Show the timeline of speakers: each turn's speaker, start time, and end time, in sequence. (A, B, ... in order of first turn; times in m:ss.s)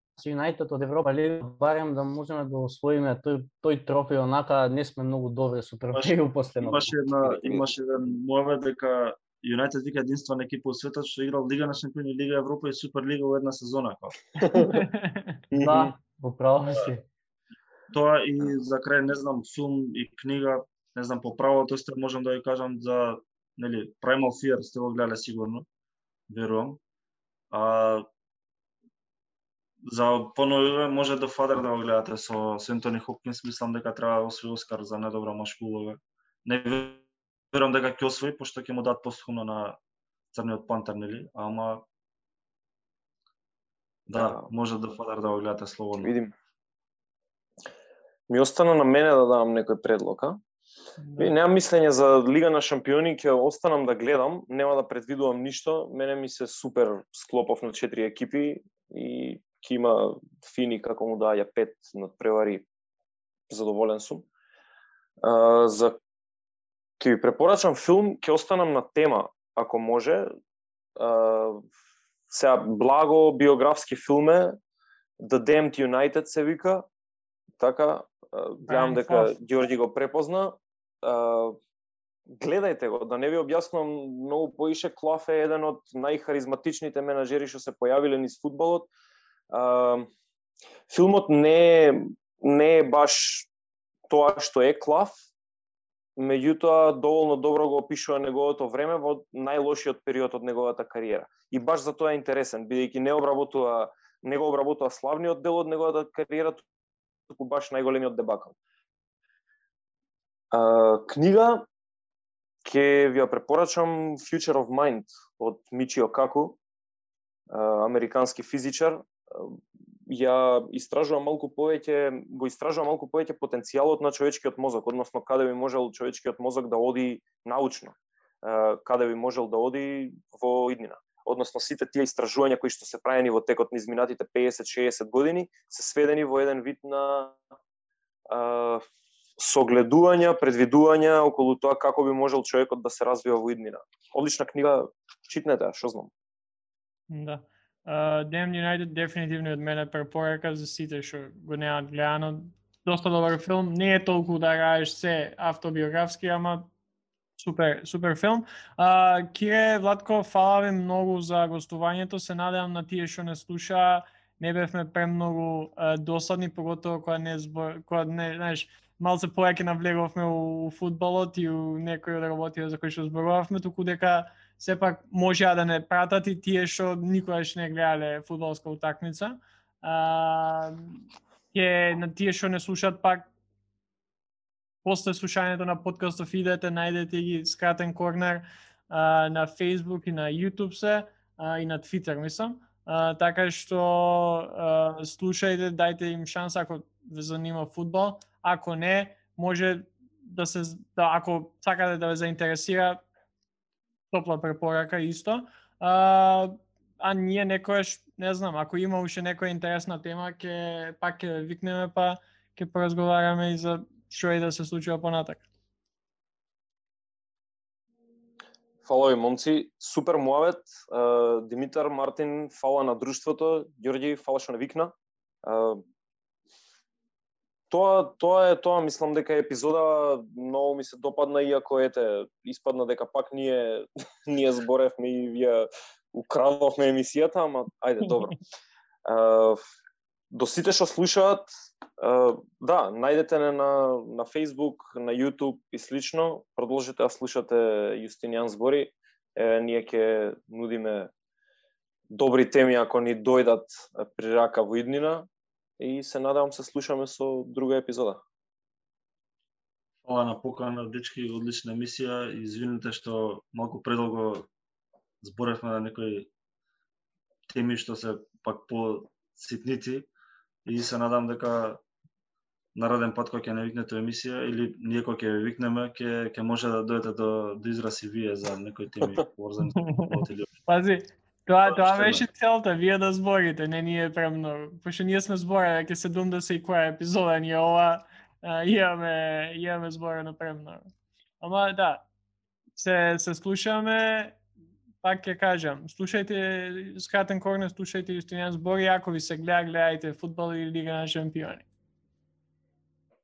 0:00.2-0:07.0 A
0:05.9-0:14.3 B
0:07.3-0:07.6 C
0:14.4-0:14.8 C
0:14.6-0:15.3 D
0:15.5-0:15.9 C
0:15.6-0:17.0 A
0:17.9-0:25.6 B
0:26.3-0:26.8 B
0:27.5-0:28.0 B
0:29.9-0:39.8 B
0:40.3-0:41.8 B
0:44.1-0:46.1 B
0:44.1-0:44.4 C
0:46.0-0:46.3 C
0:48.3-0:50.4 C
0:51.0-0:51.3 D
0:51.2-1:02.7 C
1:03.5-1:04.2 C
1:05.2-1:06.0 C
1:07.0-1:10.3 C
1:11.0-1:11.6 C
1:12.3-1:14.6 C
1:15.2-1:16.9 C
1:17.6-1:21.6 C
1:18.7-1:19.4 D
1:22.3-1:28.9 C
1:29.5-1:30.1 C
1:30.9-1:33.5 C
1:34.1-1:35.2 C
1:36.2-1:46.6 C
1:47.3-1:48.5 C
1:50.5-1:51.7 C
1:52.6-1:56.6 C
1:57.5-2:17.4 C
2:18.3-2:18.8 C
2:19.4-2:26.1 C
2:27.1-2:36.7 D
2:37.4-3:03.3 D
3:04.8-3:23.0 D
3:24.1-3:35.4 D
3:38.8-3:45.8 C
3:47.7-3:58.4 C
3:59.0-3:59.6 C
4:00.3-4:11.1 C
4:12.1-4:15.3 C
4:15.8-4:18.2 C
4:20.0-4:24.5 B
4:25.2-4:26.3 B
4:27.5-4:30.1 B
4:30.6-4:31.8 B
4:32.7-4:40.5 B
4:39.9-4:50.9 D
4:41.6-4:42.2 B
4:51.4-4:52.0 D
4:52.8-4:54.4 D
4:55.0-5:01.6 D